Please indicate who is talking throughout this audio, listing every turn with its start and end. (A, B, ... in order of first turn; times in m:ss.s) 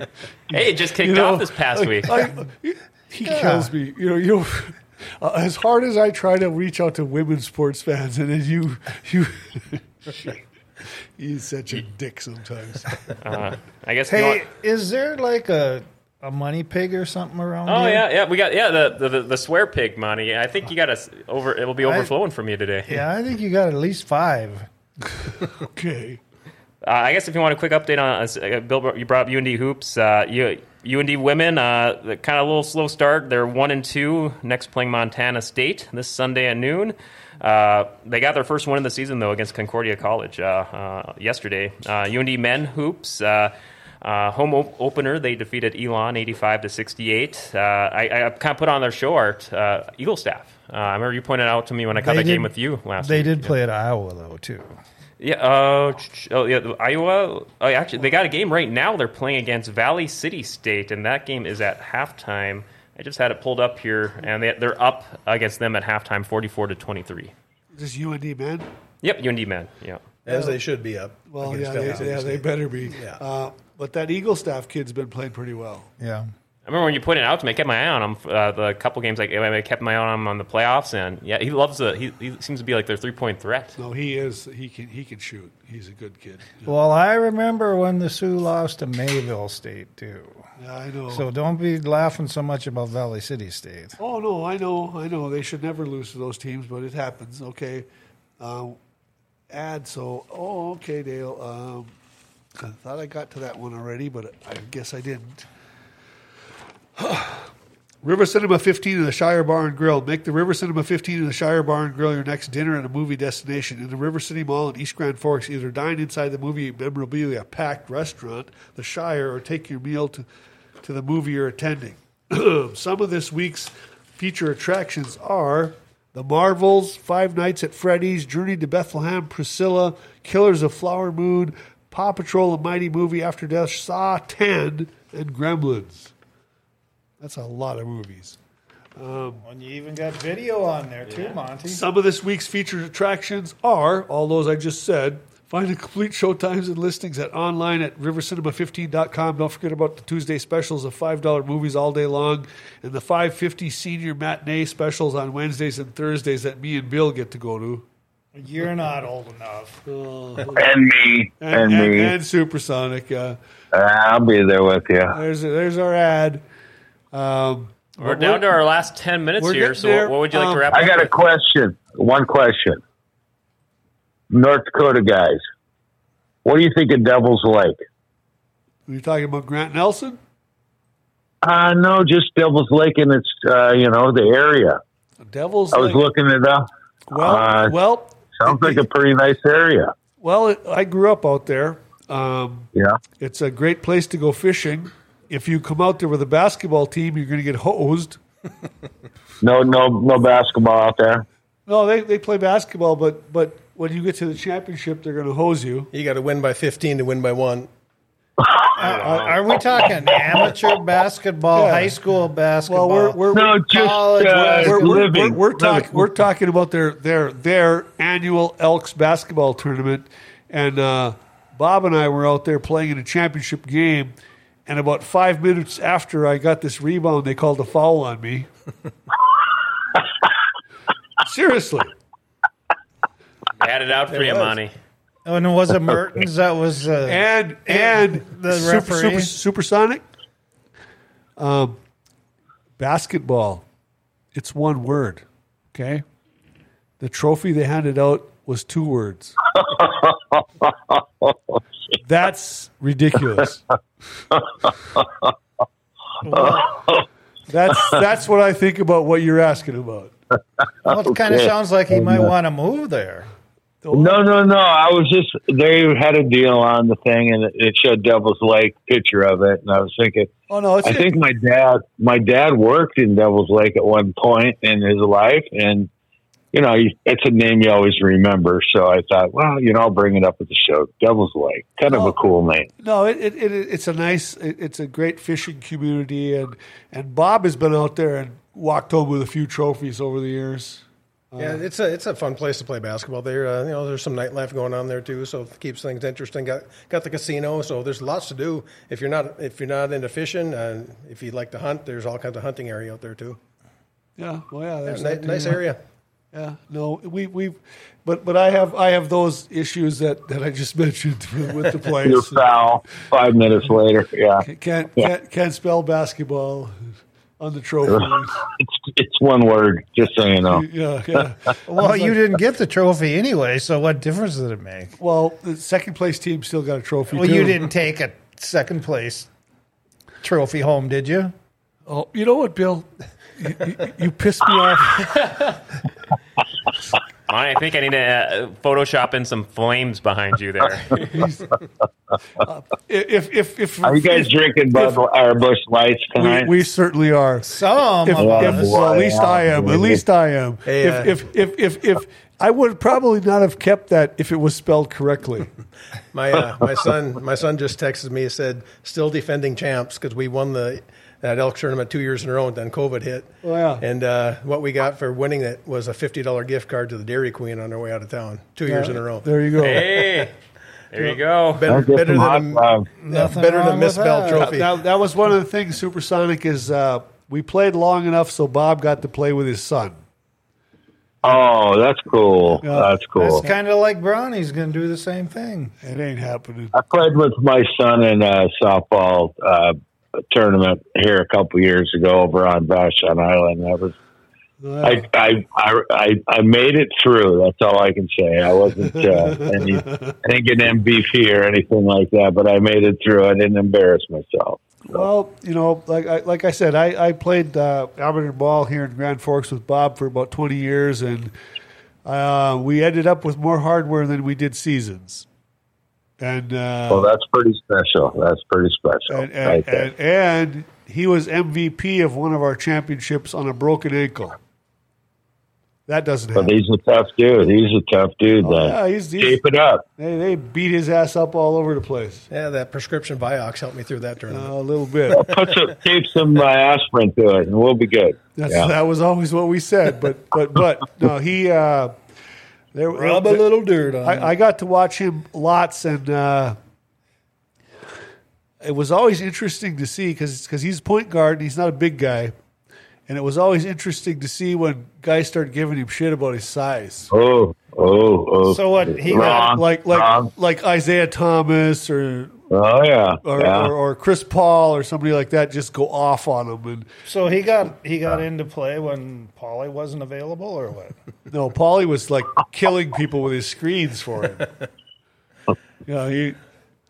0:00.5-0:02.2 A
0:00.5-0:13.0 B
0:03.2-0:03.7 C
0:13.2-0:14.4 A
0:14.1-0:18.1 C
0:17.7-0:23.0 A
0:21.8-0:22.1 C
0:22.9-0:24.7 C
0:25.1-0:26.2 B
0:26.8-0:53.6 A
0:52.0-0:54.7 C
0:55.2-1:07.3 A
1:07.8-1:08.7 B
1:09.0-1:10.0 A
1:10.3-1:13.2 D
1:10.3-1:10.6 B
1:11.3-1:15.9 B
1:16.0-1:16.3 C
1:16.7-1:23.8 A
1:23.8-1:26.8 B
1:26.7-1:30.4 C
1:30.6-1:31.2 B
1:31.1-1:34.0 C
1:34.0-1:37.9 B
1:38.4-1:38.8 B
1:39.5-1:41.9 B
1:42.6-1:45.4 B
1:47.0-1:47.5 B
1:48.0-2:00.2 B
2:00.8-2:16.1 B
2:17.2-2:18.4 B
2:19.0-2:19.4 B
2:19.4-2:21.8 C
2:21.1-2:21.4 A
2:21.7-2:37.9 B
2:38.4-2:39.8 C
2:39.9-2:40.7 B
2:40.6-2:42.2 E
2:41.4-2:43.4 B
2:43.7-2:45.2 E
2:45.1-2:46.4 B
2:47.1-2:48.6 B
2:48.0-2:51.2 A
2:49.4-2:50.8 B
2:50.7-2:52.8 E
2:54.3-2:55.4 E
2:56.4-2:57.8 E
2:58.9-3:00.2 B
3:01.4-3:04.8 E
3:05.2-3:06.0 B
3:05.7-3:07.8 E
3:07.1-3:08.8 B
3:08.4-3:09.9 E
3:10.2-3:12.7 B
3:13.2-3:18.2 B
3:19.4-3:21.2 E
3:21.7-3:25.9 B
3:25.9-3:27.7 D
3:28.4-3:28.7 E
3:28.8-3:29.4 A
3:28.8-3:35.1 C
3:31.5-3:32.0 B
3:32.7-3:44.1 B
3:33.3-3:36.1 E
3:44.7-3:48.5 B
3:51.2-3:51.9 B
3:53.6-3:54.7 A
3:54.1-3:54.6 D
3:55.2-3:59.3 C
3:57.1-4:00.0 B
4:01.4-4:01.8 B
4:02.8-4:03.6 B
4:04.4-4:06.0 B
4:07.0-4:09.4 B
4:09.6-4:11.6 E
4:12.0-4:13.6 B
4:15.0-4:15.3 E
4:16.2-4:16.7 C
4:16.3-4:17.0 E
4:17.5-4:20.1 B
4:20.8-4:23.3 C
4:20.9-4:22.3 E
4:23.8-4:24.2 B
4:23.9-4:30.3 E
4:30.5-4:31.2 B
4:30.8-4:35.9 E
4:36.5-4:42.7 E
4:41.9-4:42.2 B
4:42.8-4:51.6 B
4:51.4-5:03.4 D
5:04.2-5:05.6 B
5:04.9-5:05.8 D
5:06.3-5:12.5 B
5:12.0-5:15.1 E
5:14.4-5:16.8 B
5:17.4-5:18.4 B
5:18.6-5:20.7 E
5:20.5-5:22.2 B
5:21.7-5:25.0 C
5:25.0-5:27.7 B
5:27.1-5:29.3 C
5:30.2-5:31.3 C
5:31.9-5:35.6 B
5:37.3-5:41.1 A
5:41.0-5:41.5 B
5:42.4-5:45.0 B
5:43.8-5:46.6 E
5:46.2-5:55.5 B
5:47.4-5:48.9 C
5:48.2-5:50.0 E
5:50.7-5:51.2 D
5:56.1-6:09.3 D
6:03.4-6:03.8 B
6:08.7-6:09.0 C
6:09.2-6:10.0 B
6:09.6-6:10.4 A
6:10.9-6:11.7 A
6:11.0-6:14.7 D
6:11.7-6:12.9 E
6:13.0-6:14.6 C
6:14.3-6:20.0 B
6:21.2-6:23.4 E
6:22.6-6:23.5 B
6:23.2-6:25.8 C
6:25.8-6:26.8 B
6:26.7-6:29.8 E
6:30.3-6:34.0 E
6:34.6-6:35.0 B
6:34.8-6:45.0 E
6:38.9-6:40.1 B
6:44.9-6:51.3 B
6:52.0-6:55.3 B
6:56.2-6:57.1 B
6:56.9-6:59.9 E
6:59.1-7:04.4 B
7:05.9-7:06.6 B
7:06.4-7:09.8 E
7:08.4-7:09.4 B
7:10.0-7:12.3 B
7:12.3-7:14.5 D
7:14.3-7:15.3 B
7:15.1-7:18.7 E
7:15.2-7:15.6 D
7:18.4-7:21.9 B
7:22.7-7:23.5 B
7:22.9-7:24.3 C
7:24.0-7:26.6 B
7:28.6-7:32.3 B
7:33.1-7:37.1 B
7:37.1-7:40.3 E
7:38.4-7:39.6 C
7:39.1-7:42.4 B
7:42.5-7:43.7 E
7:43.2-7:46.9 B
7:47.1-7:51.0 C
7:51.3-7:54.5 B
7:55.9-7:56.4 B